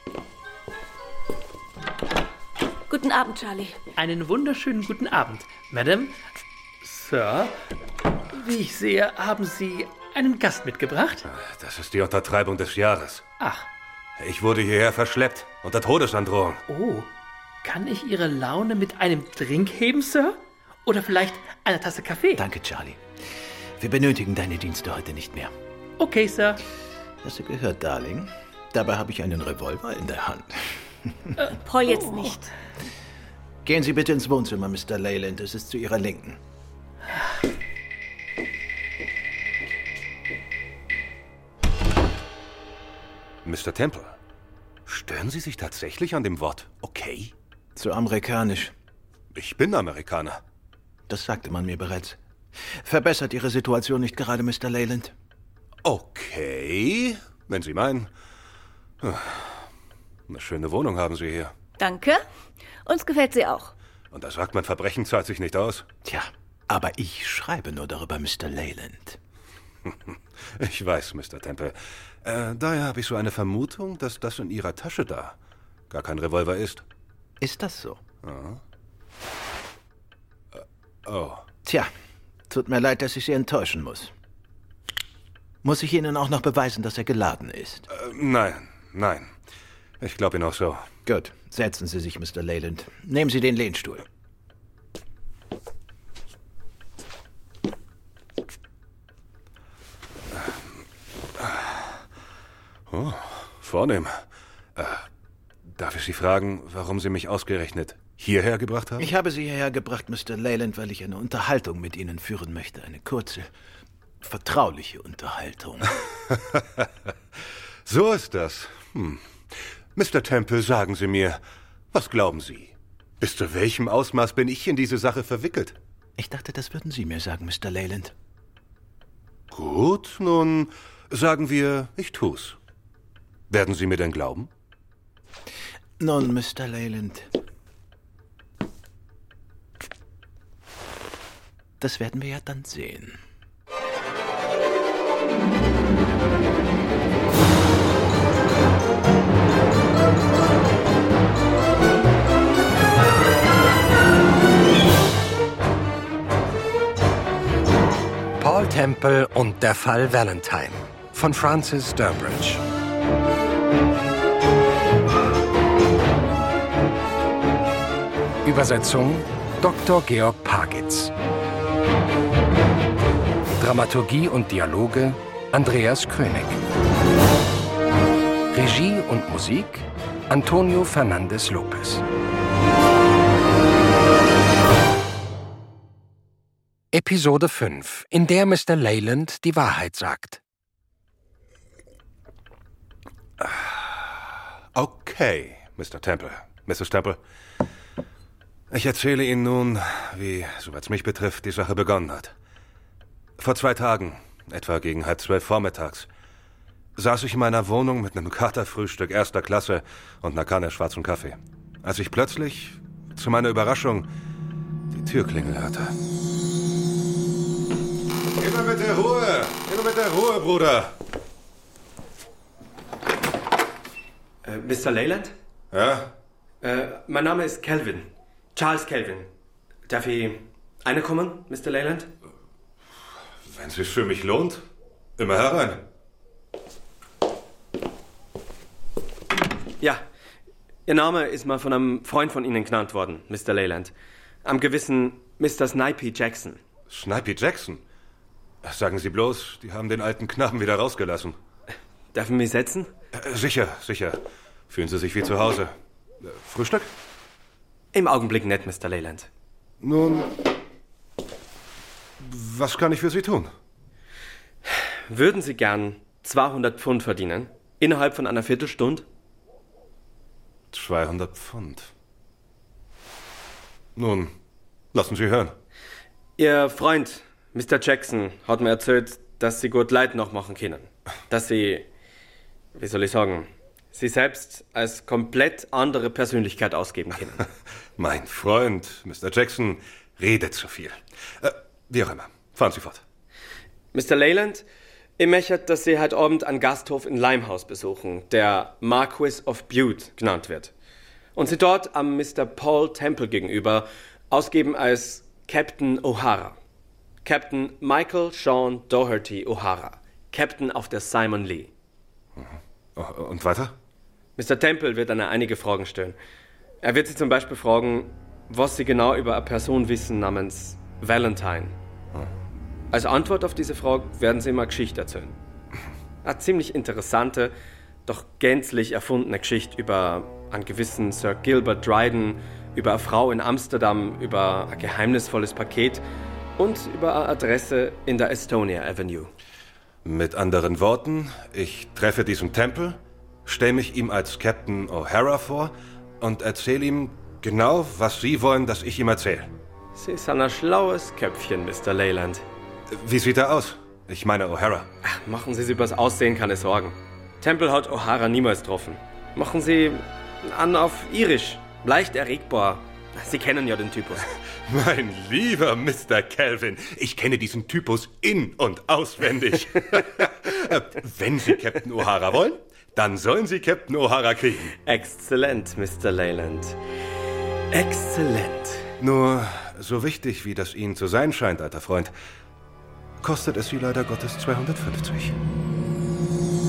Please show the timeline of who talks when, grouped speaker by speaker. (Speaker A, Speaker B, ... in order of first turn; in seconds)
Speaker A: 2.9-3.8, 31.5-32.5, 61.8-62.2, 62.8-63.7
Speaker B: 4.0-6.1, 6.8-7.5, 8.3-11.2, 13.4-13.7, 16.7-17.1, 17.6-22.4, 26.0-26.6, 31.4-32.4
Speaker C: 11.3-13.2, 14.2-16.6, 43.4-44.1, 44.9-47.3, 49.3-50.4, 55.8-58.1, 59.0-59.6, 60.3-61.5, 64.1-65.8, 70.5-75.3, 75.9-76.8, 78.2-78.6, 80.5-81.4, 87.9-89.3, 90.0-90.8, 101.4-101.7, 102.9-104.2, 104.8-105.0, 105.7-109.1, 116.3-116.8, 117.8-119.2, 119.9-121.4, 121.9-125.7, 129.5-132.6, 133.5-134.5, 193.4-194.1, 194.7-197.2, 198.7-202.3, 203.4-206.1, 206.9-214.1, 214.9-215.9, 218.3-221.0, 225.7-226.1, 233.5-234.6, 235.2-235.8, 246.9-247.8, 248.6-251.4, 253.1-255.7, 256.2-256.9, 259.8-260.3, 262.2-263.5, 270.7-271.9, 273.9-274.3, 274.9-275.5, 288.0-293.0, 312.4-313.7, 340.0-349.5, 352.9-354.9, 364.6-374.7, 379.0-382.1, 383.2-385.3
Speaker D: 22.3-23.0, 23.8-25.5, 27.2-31.4, 33.6-36.4, 47.8-48.7, 51.1-52.2, 52.7-55.1, 66.0-69.2, 77.4-78.0, 81.6-81.9, 82.5-84.1, 85.6-87.8, 91.0-94.0, 109.0-113.5, 114.2-115.9, 126.2-128.1, 136.0-137.3, 141.8-143.2
Speaker E: 158.4-162.6, 168.4-171.1, 173.6-176.6, 178.5-182.0, 186.9-190.4
Speaker F: 224.4-225.3, 226.6-229.3, 229.9-232.1, 240.8-243.9, 244.4-246.6, 252.1-252.9, 257.9-259.3, 265.1-269.1, 276.4-281.9, 282.7-287.5, 293.9-294.6, 295.2-300.7, 301.4-306.6, 307.2-311.7, 314.4-316.2, 316.8-321.8, 322.9-325.4, 326.2-327.5, 328.1-336.0, 336.6-339.3, 349.9-352.4, 355.0-364.3, 374.8-376.8, 377.7-378.9